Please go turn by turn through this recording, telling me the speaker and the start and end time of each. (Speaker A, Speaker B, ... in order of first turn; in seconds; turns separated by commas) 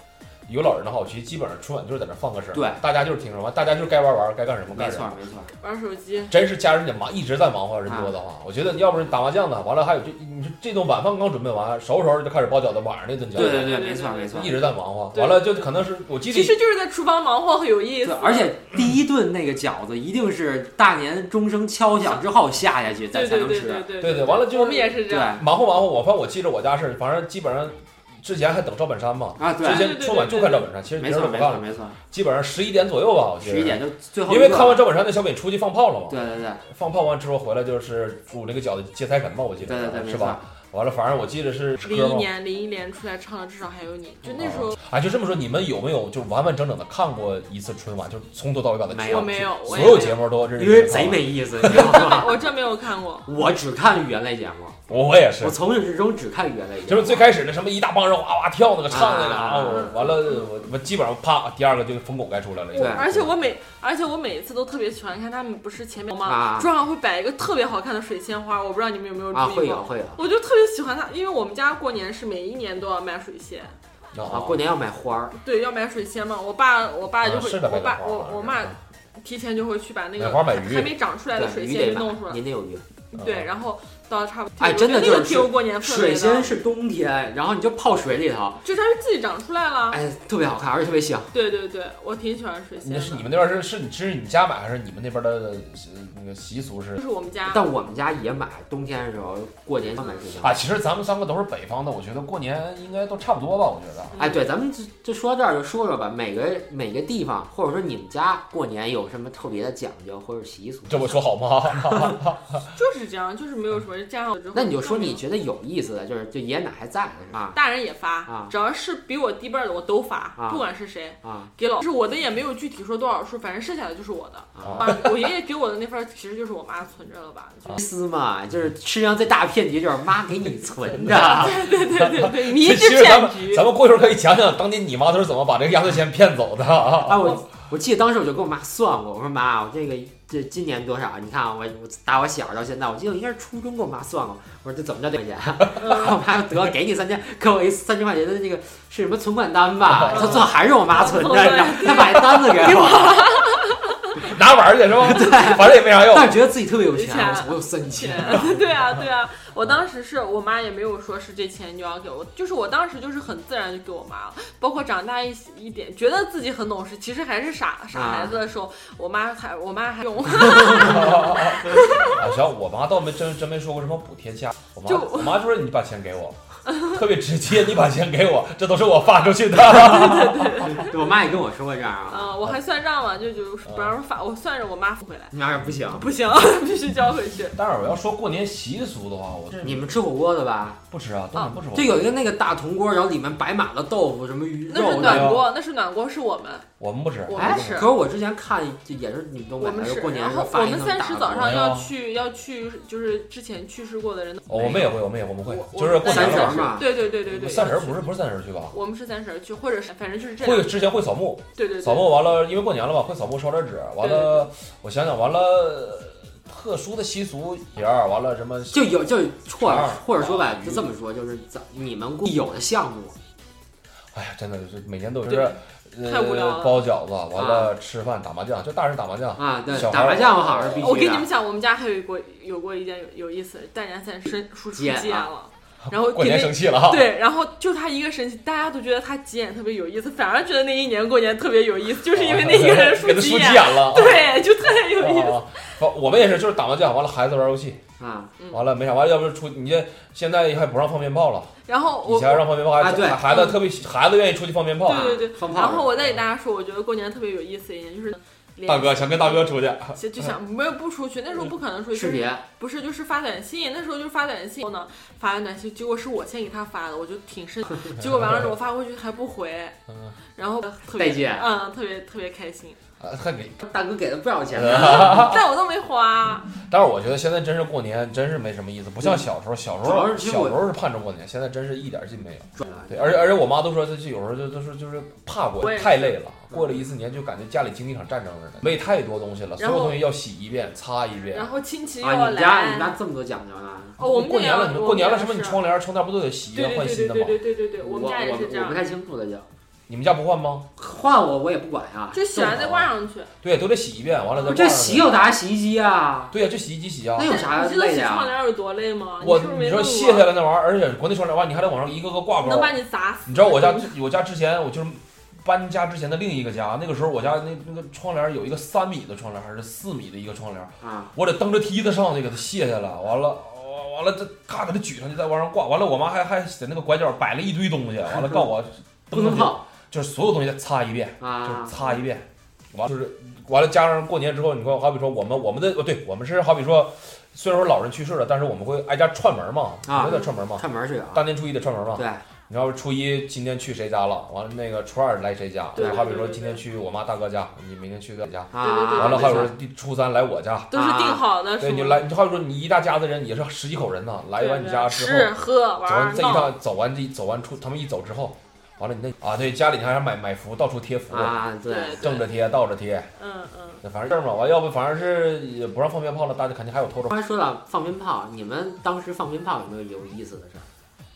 Speaker A: 0.5-5.1, Speaker B: 2.5-2.8, Speaker B: 4.7-5.5, Speaker C: 5.6-6.3, Speaker A: 6.3-13.8, Speaker B: 7.9-8.1, Speaker B: 13.3-14.5, Speaker C: 13.3-14.5, Speaker A: 14.3-16.6, Speaker C: 15.1-15.6, Speaker C: 16.3-18.5, Speaker B: 18.0-23.9, Speaker C: 23.1-25.4, Speaker A: 24.0-42.3, Speaker B: 25.0-25.4, Speaker B: 29.4-30.0, Speaker C: 29.6-30.7, Speaker B: 31.0-32.0, Speaker B: 33.4-34.8, Speaker B: 36.1-36.6, Speaker B: 39.6-40.4, Speaker C: 41.8-44.8, Speaker A: 44.4-51.9, Speaker B: 48.9-49.9, Speaker C: 49.0-50.2, Speaker B: 50.6-52.4, Speaker C: 51.7-53.3, Speaker B: 53.2-54.8, Speaker A: 54.9-55.5, Speaker B: 55.4-57.3, Speaker A: 56.9-63.3, Speaker B: 58.9-59.9, Speaker C: 59.7-60.5, Speaker C: 62.7-73.7, Speaker B: 62.7-63.0, Speaker B: 66.2-66.7, Speaker B: 69.3-70.2, Speaker A: 74.1-74.6, Speaker B: 74.3-75.3, Speaker C: 75.4-82.4, Speaker A: 77.2-78.8, Speaker A: 80.2-80.9, Speaker B: 81.3-82.8, Speaker C: 83.1-86.5, Speaker A: 83.2-83.5, Speaker B: 84.6-88.6, Speaker C: 88.6-90.0, Speaker B: 89.9-91.3, Speaker C: 91.3-93.3, Speaker A: 92.8-97.0, Speaker C: 97.0-97.6, Speaker B: 97.5-100.6, Speaker A: 100.4-104.2, Speaker C: 104.1-104.4, Speaker B: 104.2-111.1, Speaker A: 110.9-112.6, Speaker C: 112.7-115.2, Speaker B: 114.5-117.6, Speaker C: 117.5-127.8, Speaker B: 118.2-118.5, Speaker B: 120.4-120.6, Speaker B: 121.2-121.5, Speaker B: 124.5-124.9, Speaker A: 124.6-125.0, Speaker B: 127.8-131.7, Speaker C: 131.0-133.7, Speaker A: 131.6-137.3, Speaker B: 137.0-153.4, Speaker C: 145.8-146.2, Speaker C: 150.1-154.2, Speaker A: 154.2-156.4, Speaker B: 155.0-158.6, Speaker C: 156.9-172.2, Speaker B: 167.9-168.4, Speaker A: 170.8-180.7, Speaker C: 174.8-175.4, Speaker C: 176.7-177.0, Speaker C: 179.6-180.9, Speaker B: 180.6-182.3, Speaker C: 182.1-185.3, Speaker A: 183.7-183.9, Speaker B: 185.3-186.1, Speaker C: 185.9-187.6, Speaker A: 187.5-189.8, Speaker B: 189.6-190.8, Speaker A: 190.9-192.0, Speaker B: 191.7-195.4, Speaker C: 194.7-196.7, Speaker A: 195.0-195.5, Speaker A: 196.8-197.9, Speaker C: 197.3-197.9, Speaker B: 197.3-201.5, Speaker C: 199.6-204.8, Speaker A: 201.3-201.9, Speaker A: 204.5-208.8, Speaker B: 204.5-204.9, Speaker C: 205.4-208.0, Speaker B: 206.0-206.9, Speaker C: 208.7-210.7, Speaker A: 210.4-219.0, Speaker C: 211.6-212.1, Speaker C: 214.0-214.5, Speaker B: 218.7-223.2, Speaker A: 219.6-220.8, Speaker A: 224.1-230.9, Speaker C: 225.3-226.8, Speaker B: 227.3-227.7, Speaker B: 229.3-231.3, Speaker C: 230.8-245.7, Speaker B: 234.7-235.3, Speaker A: 235.8-237.1, Speaker A: 242.1-247.8, Speaker B: 248.0-248.3, Speaker A: 248.5-251.5, Speaker C: 251.7-252.5, Speaker A: 252.0-255.2, Speaker B: 252.8-253.2, Speaker C: 253.2-253.6, Speaker C: 254.8-269.8, Speaker B: 254.9-255.9, Speaker A: 258.6-260.3, Speaker B: 261.9-262.4, Speaker C: 270.4-272.8, Speaker B: 270.9-271.5, Speaker A: 273.0-273.6, Speaker B: 273.6-275.2, Speaker A: 274.5-275.4, Speaker C: 274.6-276.5, Speaker A: 276.6-291.5, Speaker B: 279.8-280.6, Speaker B: 282.6-283.2, Speaker C: 285.6-286.2, Speaker C: 289.6-290.0, Speaker C: 291.3-292.9, Speaker B: 292.0-294.0, Speaker C: 294.0-295.6, Speaker A: 294.0-297.4, Speaker C: 296.5-298.9, Speaker B: 297.8-299.4, Speaker A: 299.9-300.6, Speaker B: 300.8-302.8, Speaker C: 302.1-303.3, Speaker A: 303.4-305.1, Speaker B: 304.5-306.3, Speaker A: 306.3-307.3, Speaker B: 307.1-308.3, Speaker C: 307.2-310.3, Speaker A: 309.2-350.7, Speaker C: 312.4-313.9, Speaker B: 320.8-321.1, Speaker B: 329.1-329.6, Speaker B: 331.2-331.8, Speaker B: 339.9-341.2, Speaker B: 341.9-342.2, Speaker C: 345.7-346.6, Speaker B: 345.8-346.1, Speaker B: 348.5-349.5, Speaker C: 348.6-349.4, Speaker C: 350.7-352.0, Speaker B: 350.7-351.2, Speaker A: 351.6-361.4, Speaker C: 354.4-356.5, Speaker B: 361.1-362.2, Speaker C: 361.6-362.2, Speaker A: 362.0-363.1, Speaker C: 363.2-363.8, Speaker A: 363.8-367.1, Speaker B: 367.1-370.7